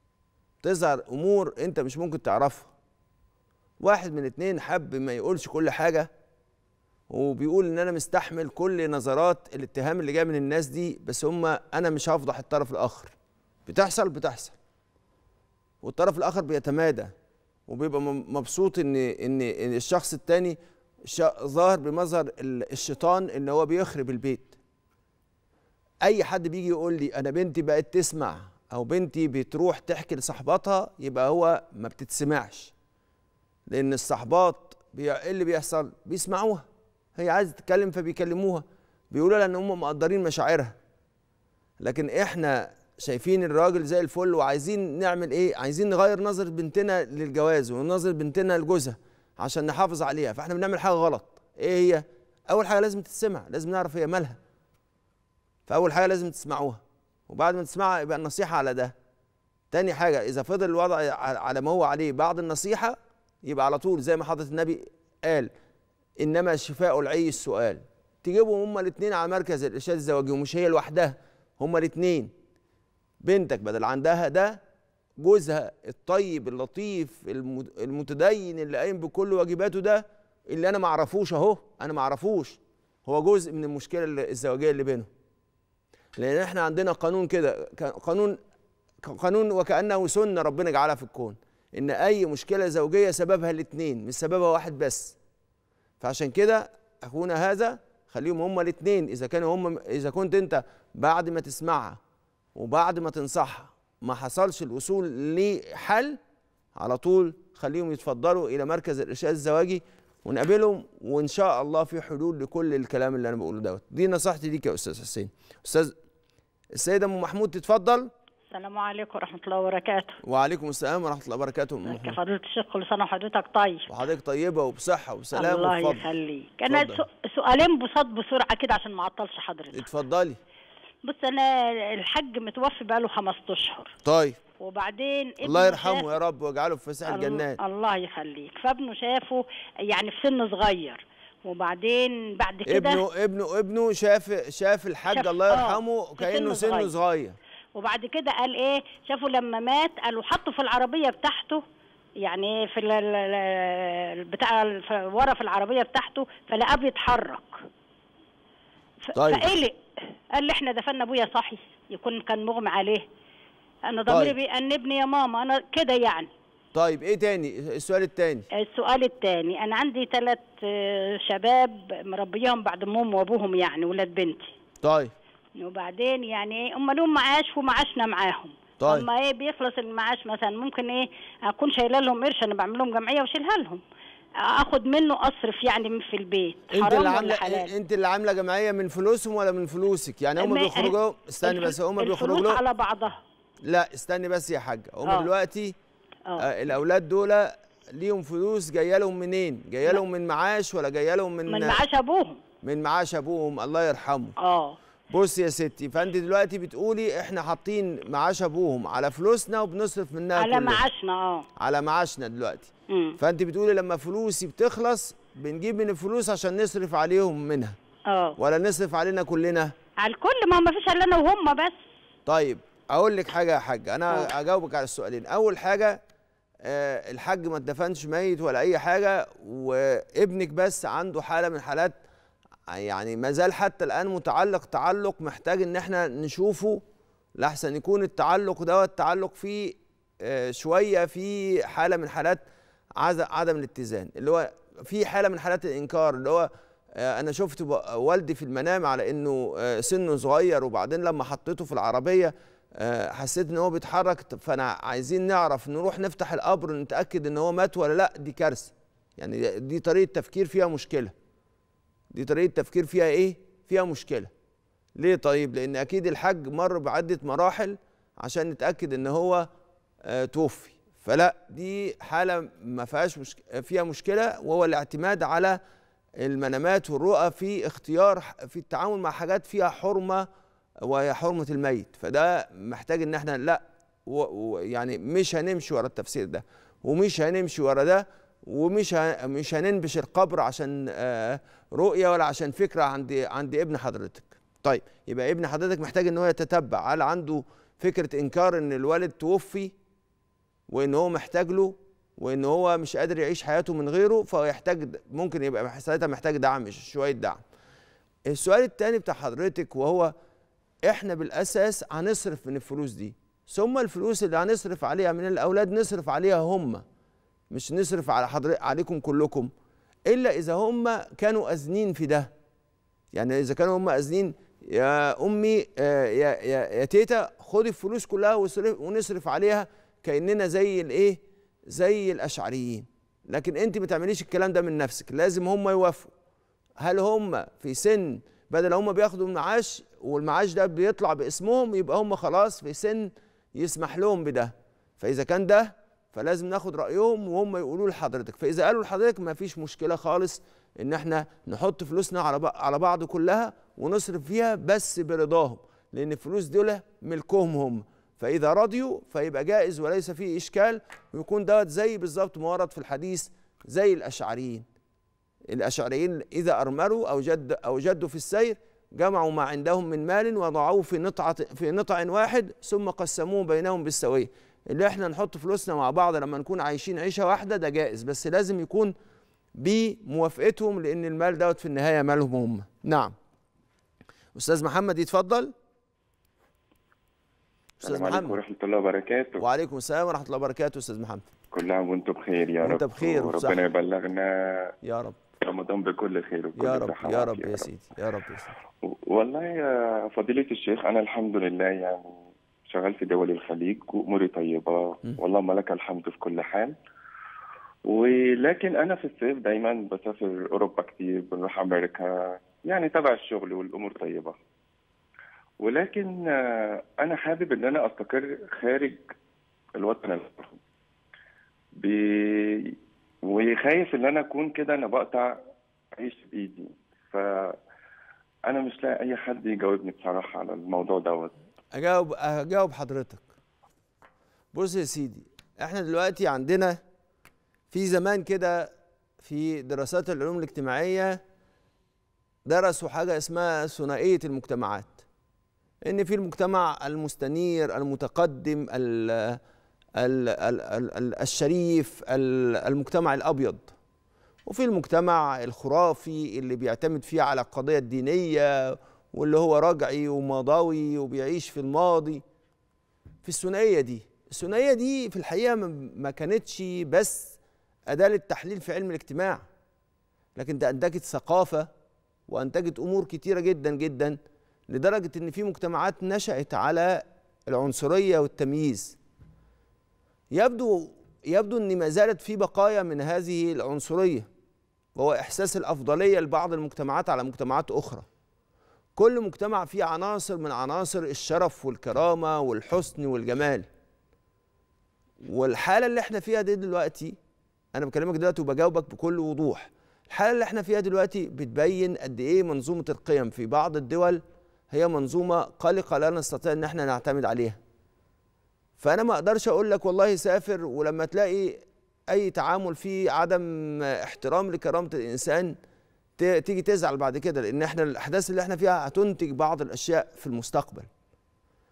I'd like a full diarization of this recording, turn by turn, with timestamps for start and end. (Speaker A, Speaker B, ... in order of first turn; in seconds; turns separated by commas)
Speaker A: 0.6-2.7, Speaker A: 3.8-6.1, Speaker A: 7.1-13.1, Speaker A: 13.7-14.6, Speaker A: 15.8-17.1, Speaker A: 17.7-20.6, Speaker A: 21.1-24.6, Speaker A: 26.0-32.7, Speaker A: 33.7-40.8, Speaker A: 41.8-54.4, Speaker A: 55.7-58.9, Speaker A: 59.7-65.5, Speaker A: 66.2-72.3, Speaker A: 73.2-74.6, Speaker A: 75.2-85.1, Speaker A: 86.2-88.4, Speaker A: 89.0-95.2, Speaker A: 96.0-102.0, Speaker A: 102.5-106.2, Speaker A: 106.8-115.9, Speaker A: 116.8-118.1, Speaker B: 118.5-120.2, Speaker A: 120.2-122.2, Speaker B: 121.9-123.9, Speaker A: 123.9-126.1, Speaker B: 125.3-129.8, Speaker A: 126.7-127.0, Speaker A: 129.7-130.4, Speaker B: 131.1-133.9, Speaker A: 134.0-134.4, Speaker B: 134.6-136.1, Speaker A: 135.4-137.6, Speaker B: 137.1-143.0, Speaker A: 142.7-147.4, Speaker B: 145.1-146.9, Speaker B: 147.8-151.6, Speaker B: 152.2-157.6, Speaker B: 159.0-159.8, Speaker A: 159.1-159.5, Speaker B: 160.3-163.1, Speaker B: 163.8-166.3, Speaker A: 164.1-164.3, Speaker A: 166.7-168.5, Speaker B: 168.5-174.5, Speaker A: 174.8-175.1, Speaker B: 175.6-183.8, Speaker A: 178.8-179.1, Speaker B: 184.4-187.7, Speaker A: 186.7-192.6, Speaker B: 190.4-193.2, Speaker A: 193.7-195.7, Speaker A: 196.4-201.8, Speaker B: 201.5-202.4, Speaker A: 202.6-204.3, Speaker B: 204.4-204.8, Speaker A: 205.1-210.8, Speaker B: 210.4-211.5, Speaker A: 211.6-217.8, Speaker B: 212.9-213.2, Speaker B: 218.1-218.3, Speaker A: 218.4-219.7, Speaker B: 220.0-221.8, Speaker A: 222.3-226.0, Speaker A: 226.6-232.0, Speaker A: 232.7-236.8, Speaker A: 237.4-242.4, Speaker A: 243.0-261.1, Speaker A: 262.1-264.3, Speaker A: 265.0-269.4, Speaker A: 270.1-275.6, Speaker A: 276.2-280.2, Speaker A: 280.8-299.7, Speaker A: 300.7-307.4, Speaker A: 308.3-310.1, Speaker A: 310.9-316.8, Speaker A: 317.5-319.5, Speaker A: 320.1-322.3, Speaker A: 323.1-331.2, Speaker A: 331.7-336.1, Speaker A: 336.8-364.6, Speaker A: 365.5-378.9, Speaker A: 379.6-383.1, Speaker A: 384.3-385.5, Speaker C: 387.8-389.4, Speaker A: 387.8-388.4, Speaker A: 389.4-391.3, Speaker C: 391.5-394.7, Speaker A: 392.6-393.6, Speaker A: 394.8-395.2, Speaker C: 395.4-397.7, Speaker A: 396.6-398.5, Speaker C: 398.9-402.1, Speaker C: 402.7-406.7, Speaker C: 407.9-412.1, Speaker C: 412.6-414.3, Speaker C: 415.6-419.0, Speaker C: 419.8-420.6, Speaker C: 421.8-422.7, Speaker C: 423.2-425.3, Speaker C: 425.9-427.6, Speaker C: 428.5-431.3, Speaker A: 431.7-433.2, Speaker A: 434.5-436.8, Speaker A: 437.7-438.7, Speaker A: 439.2-441.2, Speaker A: 442.4-445.0, Speaker A: 445.8-449.4, Speaker A: 450.0-453.7, Speaker A: 454.4-462.2, Speaker A: 463.2-467.4, Speaker A: 467.9-469.4, Speaker A: 470.4-471.7, Speaker A: 472.3-474.2, Speaker A: 474.7-479.0, Speaker A: 480.3-484.3, Speaker A: 484.9-488.1, Speaker A: 488.9-493.6, Speaker A: 495.2-497.1, Speaker A: 497.7-507.6, Speaker A: 508.8-515.5, Speaker A: 516.2-520.9